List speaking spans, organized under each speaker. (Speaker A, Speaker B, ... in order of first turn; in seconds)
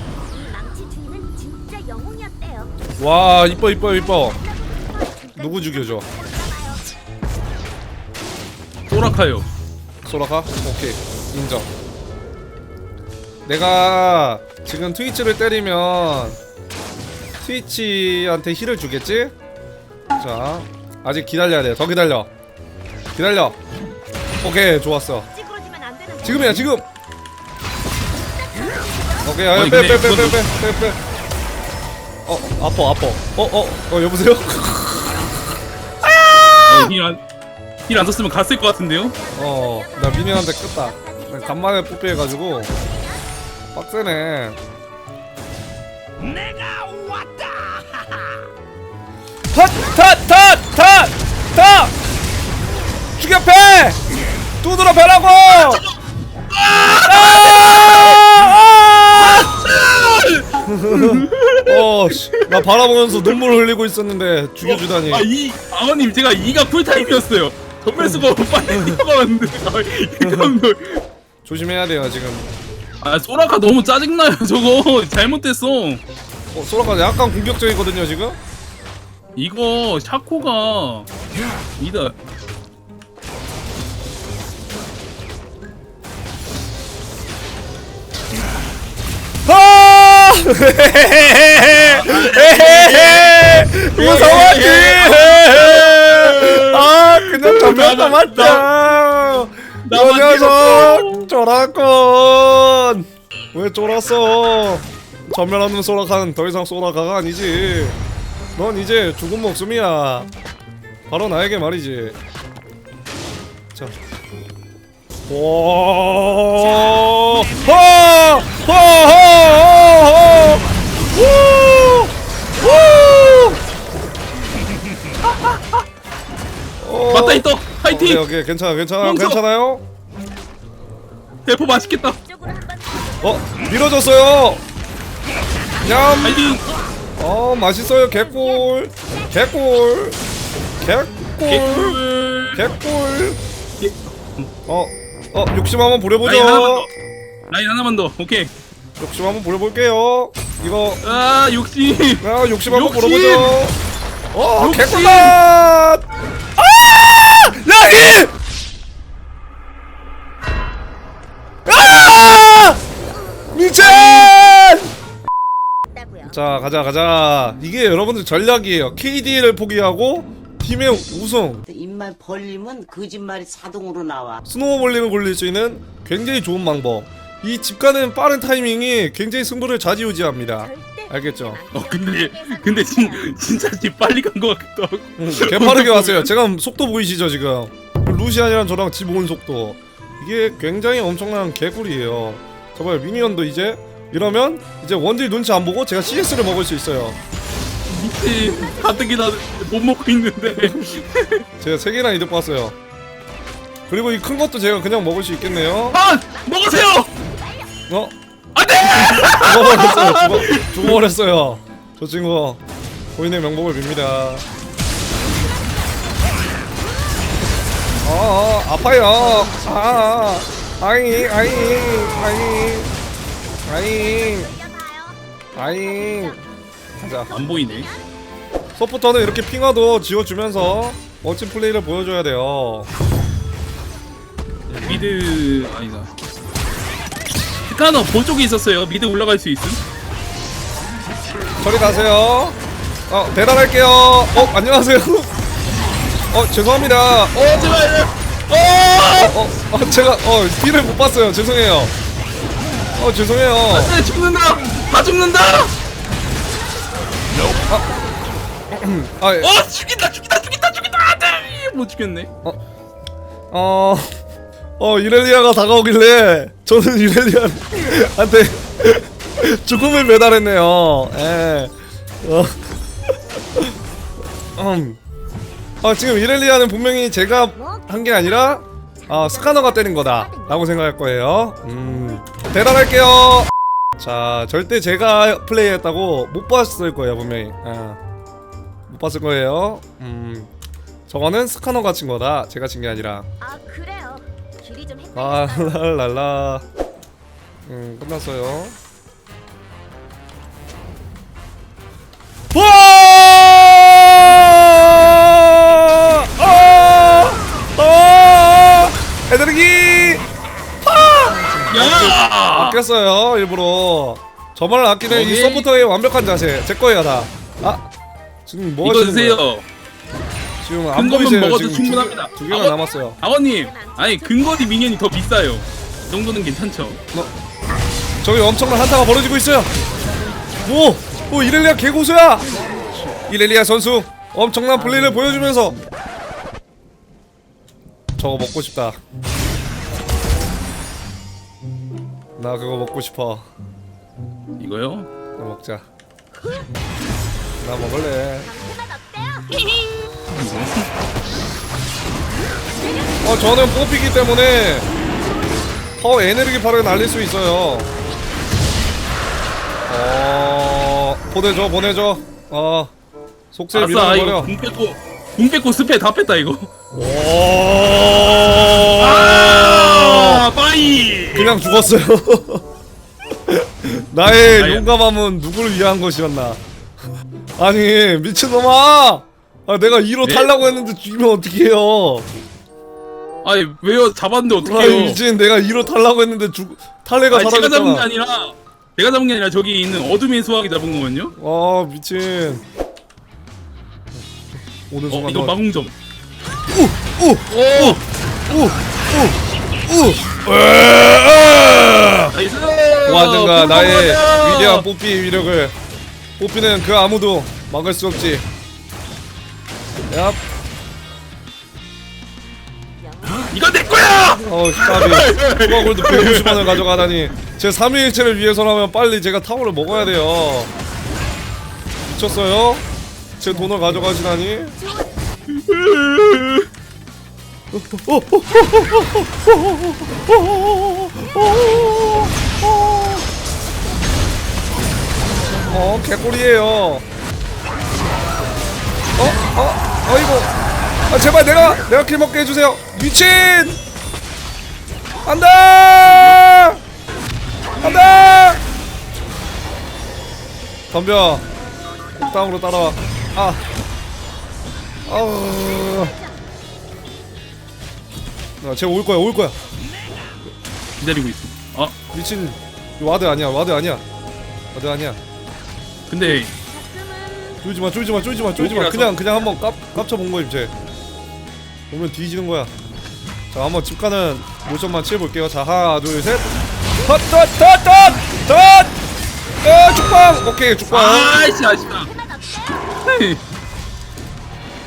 Speaker A: 0.3-2.7, 3.8-7.0, 25.3-26.6, 28.2-29.6, 39.0-43.3, 131.5-133.7, 135.6-136.5, 137.9-139.4, 163.1-163.6, 165.9-166.4, 180.6-183.4, 206.2-207.8, 215.1-216.8, 223.8-226.5, 227.3-228.0, 254.7-255.2, 256.5-258.6, 277.5-277.9, 279.0-280.7, 293.4-295.9, 322.9-324.9, 346.3-346.8, 348.4-350.2, 352.4-353.9, 355.0-355.9, 413.0-414.4, 424.8-425.2, 455.4-456.3, 466.3-467.6, 481.2-483.0
Speaker B: 3.0-4.4, 5.3-6.0, 10.0-11.7, 13.4-16.4, 17.4-19.3, 20.2-22.3, 23.1-23.6, 24.4-25.3, 26.2-26.9, 29.2-31.0, 32.2-35.2, 36.0-36.9, 39.3-42.7, 43.7-44.6, 49.5-51.9, 53.2-54.0, 54.6-55.8, 57.0-59.5, 60.6-65.3, 68.0-69.0, 70.2-70.5, 71.4-72.5, 76.5-78.4, 89.5-108.0, 108.5-110.3, 111.1-112.2, 115.3-123.6, 126.8-129.8, 133.2-134.7, 135.8-136.4, 137.2-140.2, 140.8-142.0, 142.5-143.4, 144.7-146.9, 149.0-151.0, 152.2-153.8, 154.3-156.0, 156.6-158.3, 161.7-162.8, 163.5-164.9, 166.2-171.6, 174.4-181.6, 185.2-197.2, 201.6-202.8, 203.9-206.0, 207.9-208.1, 208.9-212.6, 213.2-214.4, 218.0-222.9, 223.7-224.5, 225.6-226.4, 227.0-227.3, 228.8-232.9, 234.7-235.0, 241.6-242.6, 243.1-245.3, 246.3-248.0, 249.2-251.9, 252.9-253.9, 258.8-259.5, 263.5-264.1, 264.8-272.7, 274.6-275.0, 275.8-288.0, 288.9-290.5, 291.1-293.3, 295.1-296.6, 297.6-298.8, 302.5-310.2, 310.8-317.9, 318.4-319.4, 320.6-323.2, 328.2-329.7, 330.6-335.8, 338.2-339.0, 342.4-343.5, 345.4-345.8, 347.6-348.5, 353.2-354.9, 356.0-357.9, 359.9-362.9, 363.5-364.5, 366.9-370.4, 371.3-372.6, 373.5-376.6, 377.6-382.3, 384.6-388.1, 391.4-392.6, 394.9-395.6, 396.7-402.3, 403.1-405.7, 406.4-408.4, 410.1-410.4, 414.4-420.7, 422.1-422.8, 423.4-424.8, 427.7-433.2, 435.6-437.1, 439.1-440.5, 441.1-443.8, 445.2-446.8, 447.8-448.6, 450.9-451.4, 452.2-453.6, 455.1-456.1, 458.6-459.6, 462.1-464.0, 464.7-465.2, 467.6-470.7, 471.9-472.7, 473.5-476.5, 477.0-478.9, 479.6-481.4
Speaker C: 8.9-9.5, 29.5-30.4, 36.6-37.2, 37.9-39.1, 55.5-56.0, 56.5-58.5, 59.1-63.3, 64.6-71.0, 73.0-76.0, 79.3-81.1, 81.8-82.2, 91.8-98.7, 99.8-101.2, 124.7-125.3, 127.1-128.3, 129.0-129.4, 131.4-132.2, 136.1-136.7, 141.5-142.6, 143.8-144.5, 146.2-146.9, 147.5-148.5, 151.0-153.6, 154.6-155.4, 163.8-164.3, 181.7-186.3, 197.9-201.4, 205.9-207.1, 208.5-211.0, 227.3-227.9, 234.8-236.1, 237.7-239.8, 247.3-249.4, 253.7-255.7, 259.4-262.3, 311.7-312.8, 315.1-315.7, 318.8-319.6, 320.9-327.0, 344.6-345.1, 350.3-350.9, 363.7-366.7, 369.0-371.6, 374.5-374.9, 380.2-380.5, 383.4-385.2, 387.3-391.3, 395.1-395.9, 397.5-398.0, 402.3-404.9, 413.5-416.9, 425.6-426.7, 446.0-446.4, 461.0-461.9, 466.1-466.5, 468.6-469.6, 480.9-482.1, 482.8-483.4
Speaker D: 171.7-174.4